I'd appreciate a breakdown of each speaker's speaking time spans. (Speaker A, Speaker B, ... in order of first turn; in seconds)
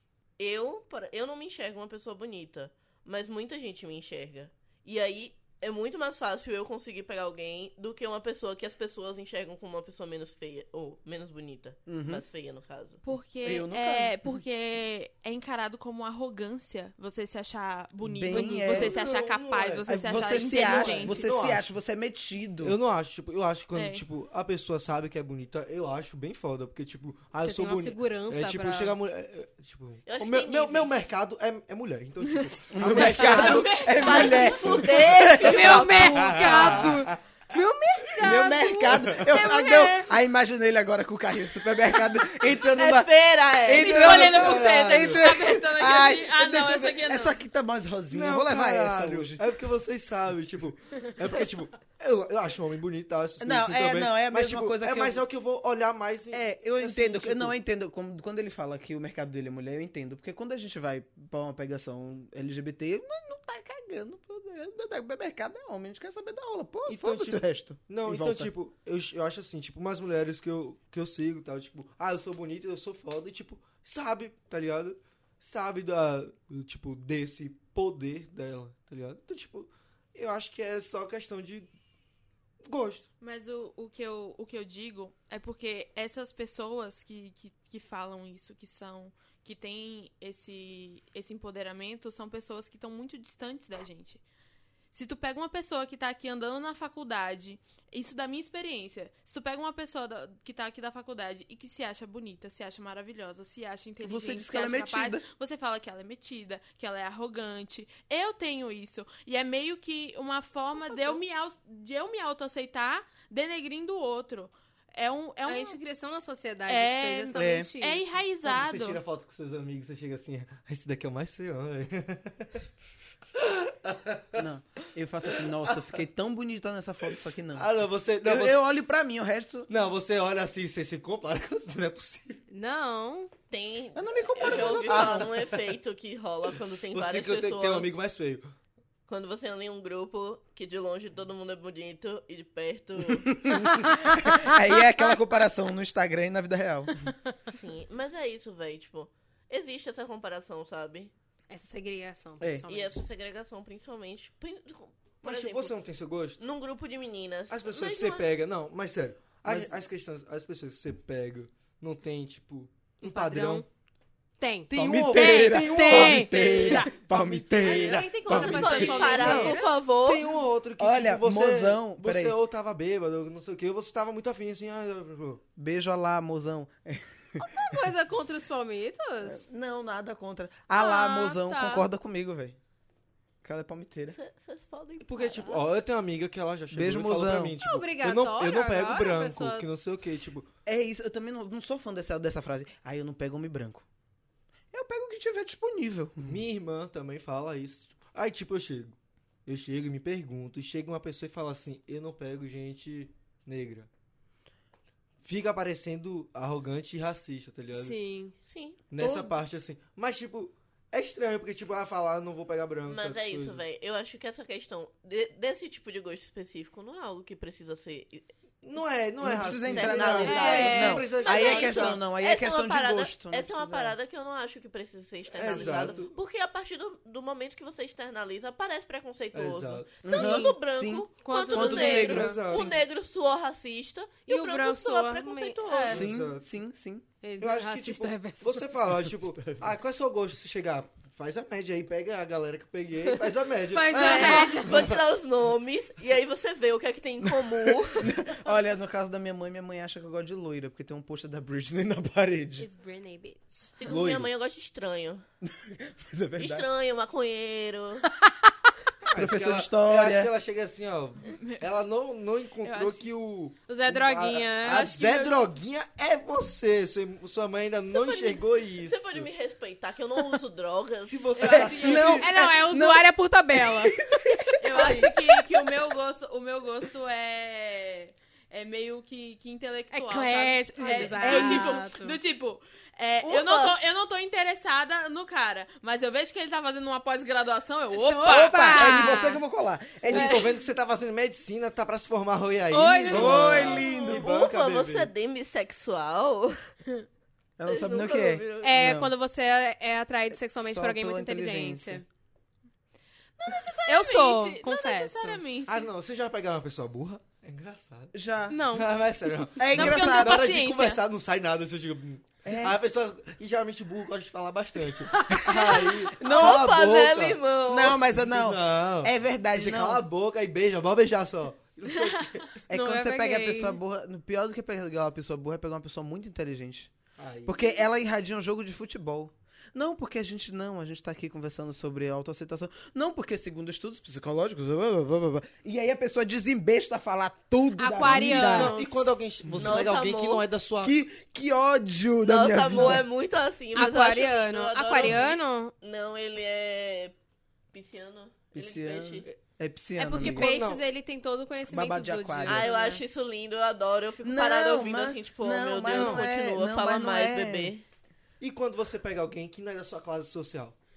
Speaker A: 0.4-13.0, 30.1-31.1, 33.1-36.9, 42.7-44.1, 133.5-138.0, 139.1-143.3, 147.5-151.1, 152.7-155.8, 156.4-158.3, 168.2-170.3, 184.1-185.6, 208.5-208.8, 212.9-218.9, 219.6-236.0, 244.0-248.1, 253.8-255.2, 256.4-258.1, 267.9-271.7, 283.2-283.8, 293.9-296.7, 297.7-298.8, 316.2-318.0, 339.6-340.4, 342.2-347.1, 347.7-349.2, 352.5-357.9
Speaker B: 11.9-12.2, 13.4-14.2, 18.0-19.0, 19.9-22.8, 32.7-36.0, 36.5-37.0, 38.2-49.4, 53.4-55.2, 56.3-68.5, 104.0-105.3, 117.3-117.7, 124.3-129.7, 133.9-135.4, 143.1-146.9, 159.4-159.7, 164.7-169.6, 170.8-172.4, 175.6-177.5, 179.2-182.6, 183.4-184.2, 186.7-187.6, 190.7-193.9, 194.7-196.4, 219.2-223.9, 230.0-232.7, 235.9-237.1, 243.9-244.6, 247.3-252.7, 255.4-256.7, 259.1-260.3, 271.4-275.1, 280.9-281.8, 288.2-290.5, 293.1-294.3, 297.6-299.1, 300.3-302.0, 308.1-308.6, 309.6-310.5, 312.4-312.8, 316.2-317.1, 317.7-320.1, 322.7-326.9, 327.5-338.8, 339.4-339.8, 340.8-343.0, 348.5-350.5, 351.6-352.7, 354.2-357.7
Speaker C: 13.0-21.3, 23.8-24.1, 33.3-34.5, 43.8-47.4, 83.2-94.2, 94.9-115.8, 116.7-119.0, 261.4-261.6, 262.6-263.1, 264.6-265.5, 271.4-272.2, 274.6-289.1, 292.7-293.1, 303.4-305.9, 309.7-311.0
Speaker D: 18.3-21.7, 22.6-34.0, 36.0-37.1, 38.1-39.5, 43.8-45.2, 48.1-57.5, 66.9-81.7, 82.7-83.1, 118.5-122.7, 123.3-124.5, 125.4-125.9, 127.5-128.6, 129.7-132.4, 134.5-135.6, 136.9-138.5, 155.2-156.4, 157.5-163.7, 164.7-175.4, 185.0-190.5, 196.2-203.9, 205.2-208.0, 208.9-213.6, 218.6-222.0, 225.3-226.2, 229.3-230.4, 232.1-232.8, 235.9-236.5, 237.4-245.0, 253.8-254.3, 259.0-269.3, 271.0-272.3, 274.8-275.1, 290.1-295.1, 305.7-308.1, 308.7-317.4, 318.1-322.6, 327.2-327.7, 338.0-341.0, 350.2-350.8, 355.8-356.3, 358.4-360.8
Speaker E: 27.4-29.0, 35.3-40.0, 110.8-111.2, 115.5-118.2, 132.5-133.3, 143.6-144.1, 151.5-153.1, 163.0-163.7, 164.4-166.9, 167.6-169.8, 177.4-179.4, 180.7-181.9, 187.6-189.7, 207.7-208.3, 220.2-221.2, 230.2-230.5, 231.2-232.6, 234.3-236.1, 237.2-238.9, 243.7-244.9, 252.6-253.8, 263.7-264.9, 272.2-274.0, 279.9-282.2, 287.9-289.4, 290.1-290.5, 292.7-294.0, 298.6-302.1, 303.9-305.4, 308.5-308.9, 315.2-315.8, 322.7-323.8, 337.8-339.1, 343.8-345.7, 350.0-353.0